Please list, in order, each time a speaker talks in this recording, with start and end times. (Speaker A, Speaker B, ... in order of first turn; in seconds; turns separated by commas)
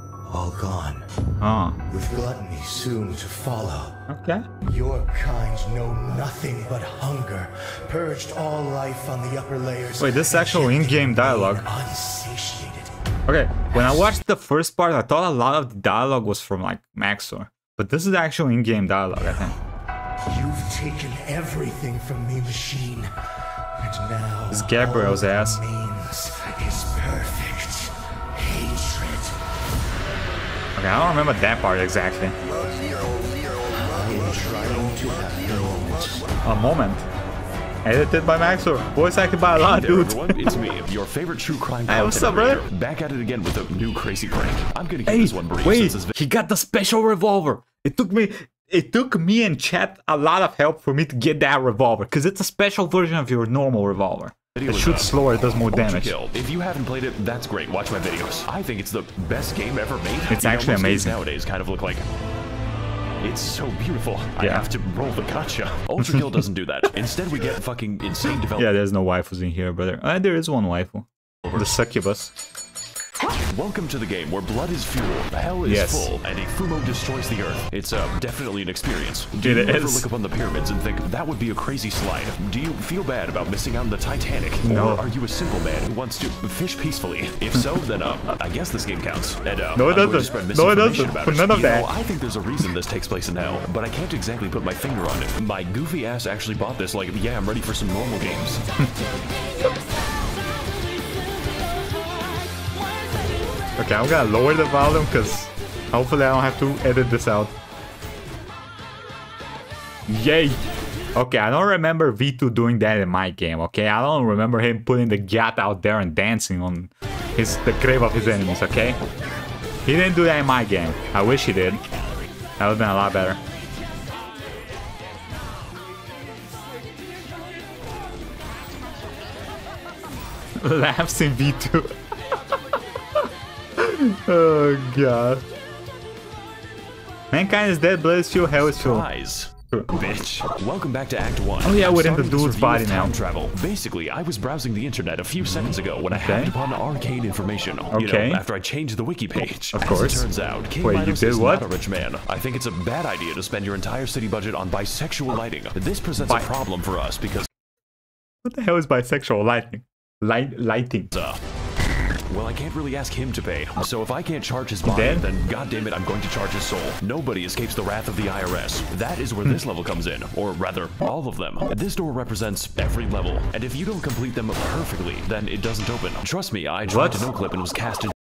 Speaker A: 0.2-1.1, Speaker B: 1.4-1.8, Speaker A: 1.9-4.0, Speaker B: 4.1-4.5, Speaker A: 4.6-12.9, Speaker B: 10.0-11.7, Speaker B: 13.3-19.6, Speaker A: 13.7-14.1, Speaker A: 19.2-19.6, Speaker A: 20.3-23.1, Speaker A: 23.8-29.4, Speaker B: 24.5-25.6, Speaker B: 30.8-32.3, Speaker A: 33.7-36.3, Speaker B: 36.4-37.0, Speaker B: 37.8-40.4, Speaker C: 39.5-46.1, Speaker B: 41.9-42.6, Speaker B: 45.1-56.1, Speaker C: 54.5-55.1, Speaker C: 55.7-62.0, Speaker B: 60.3-61.2, Speaker C: 63.2-68.7, Speaker B: 64.4-64.7, Speaker B: 68.6-72.3, Speaker C: 71.5-71.7, Speaker C: 73.5-98.6, Speaker B: 75.7-76.1, Speaker B: 79.4-80.1, Speaker B: 84.6-85.1, Speaker B: 89.8-91.9, Speaker B: 103.8-107.5, Speaker B: 110.1-110.6, Speaker B: 111.1-119.0, Speaker B: 119.8-121.8, Speaker B: 122.6-123.4, Speaker B: 130.6-131.9, Speaker B: 133.8-135.4, Speaker B: 137.3-139.1, Speaker C: 138.6-157.5, Speaker B: 141.6-143.1, Speaker B: 146.1-146.5, Speaker B: 147.9-148.4, Speaker B: 149.7-150.3, Speaker B: 150.8-151.6, Speaker B: 156.2-156.5, Speaker B: 158.4-161.1, Speaker C: 161.1-161.4, Speaker C: 162.3-178.1, Speaker B: 164.8-165.2, Speaker B: 176.9-177.3